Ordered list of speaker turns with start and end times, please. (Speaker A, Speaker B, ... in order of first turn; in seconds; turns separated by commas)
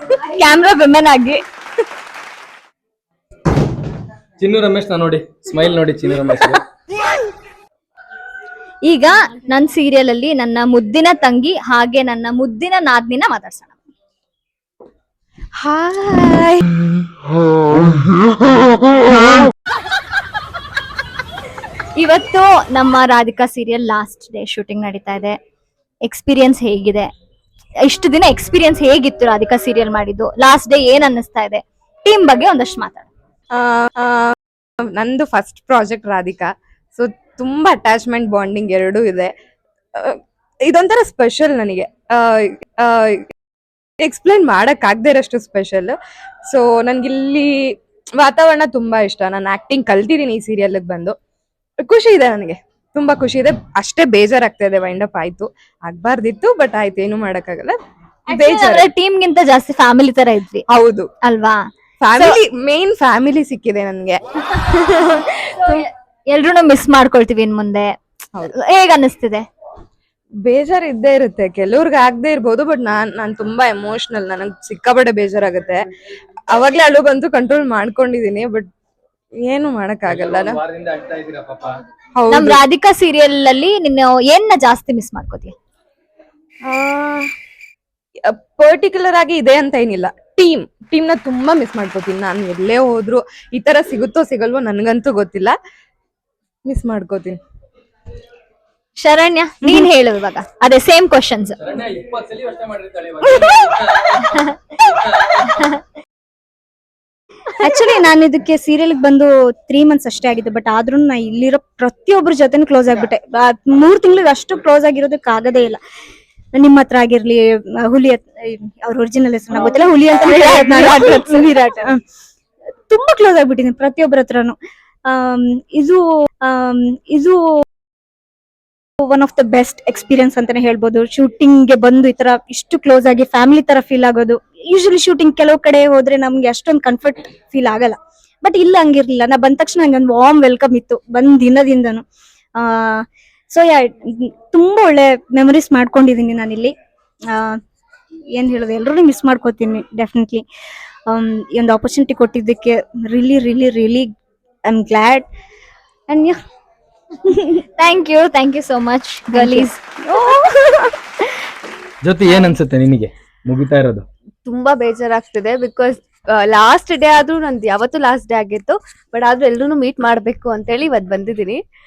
Speaker A: 0.3-1.4, Speaker B: 4.4-6.6, Speaker A: 8.8-13.7, Speaker C: 15.6-16.6, Speaker A: 22.0-25.4, Speaker A: 26.1-27.1, Speaker A: 27.9-33.1, Speaker D: 33.5-39.3, Speaker D: 40.7-43.3, Speaker D: 44.0-46.0, Speaker D: 46.5-47.5, Speaker D: 48.2-51.1, Speaker D: 51.8-57.8, Speaker A: 58.3-60.6, Speaker D: 58.3-58.9, Speaker D: 60.7-61.1, Speaker A: 61.2-61.6, Speaker D: 62.0-64.2, Speaker A: 62.1-62.4, Speaker A: 65.0-67.9, Speaker A: 68.5-69.4, Speaker D: 70.5-75.8, Speaker D: 76.5-78.7, Speaker D: 79.4-80.6, Speaker B: 80.1-81.7, Speaker D: 82.2-82.6, Speaker A: 82.3-85.5, Speaker D: 86.7-87.3, Speaker D: 88.3-95.5, Speaker D: 96.7-97.4, Speaker A: 99.0-101.6, Speaker B: 101.6-105.7, Speaker E: 107.6-115.8, Speaker A: 107.7-107.9, Speaker E: 116.5-121.9, Speaker A: 120.2-121.4, Speaker E: 122.9-124.5, Speaker E: 125.1-127.4, Speaker E: 129.0-142.0, Speaker E: 142.6-143.0, Speaker E: 143.5-143.9, Speaker E: 144.5-146.7, Speaker E: 148.4-150.4, Speaker E: 151.1-154.1, Speaker E: 154.7-155.2, Speaker E: 156.1-156.3, Speaker A: 157.8-159.8, Speaker B: 162.0-164.0, Speaker C: 164.4-171.6